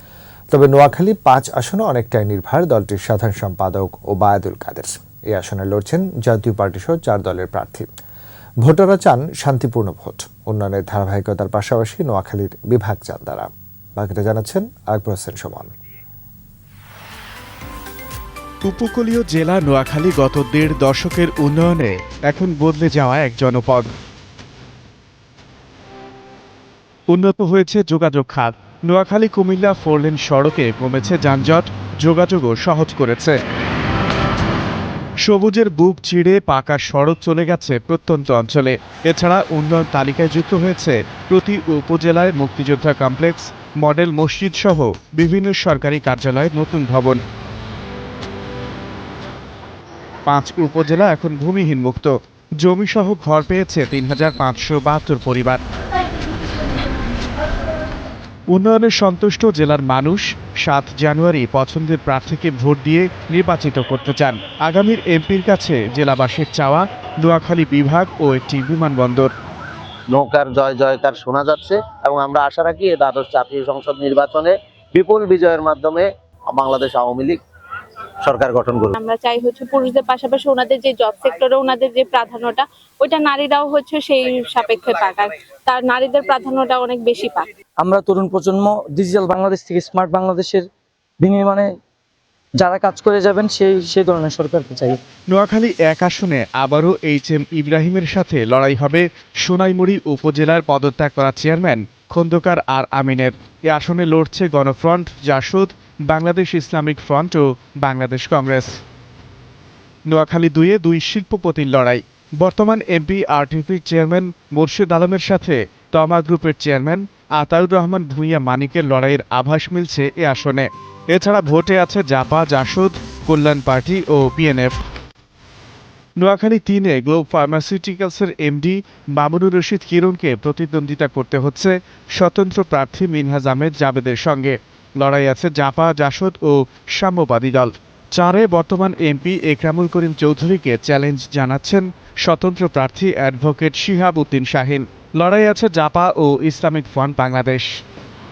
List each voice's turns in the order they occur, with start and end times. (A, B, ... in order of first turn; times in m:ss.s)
0:00.5-0:07.9 A
0:08.6-0:15.7 A
0:18.6-0:23.9 B
0:27.1-0:33.4 B
0:35.2-0:47.2 B
0:50.2-0:55.6 B
0:58.5-1:09.3 B
1:10.1-1:17.4 C
1:18.2-1:18.9 C
1:19.0-1:27.4 D
1:27.8-1:30.7 E
1:31.2-1:31.8 E
1:32.6-1:35.0 E
1:35.3-1:48.7 B
1:50.1-2:04.8 B
2:06.2-2:27.7 B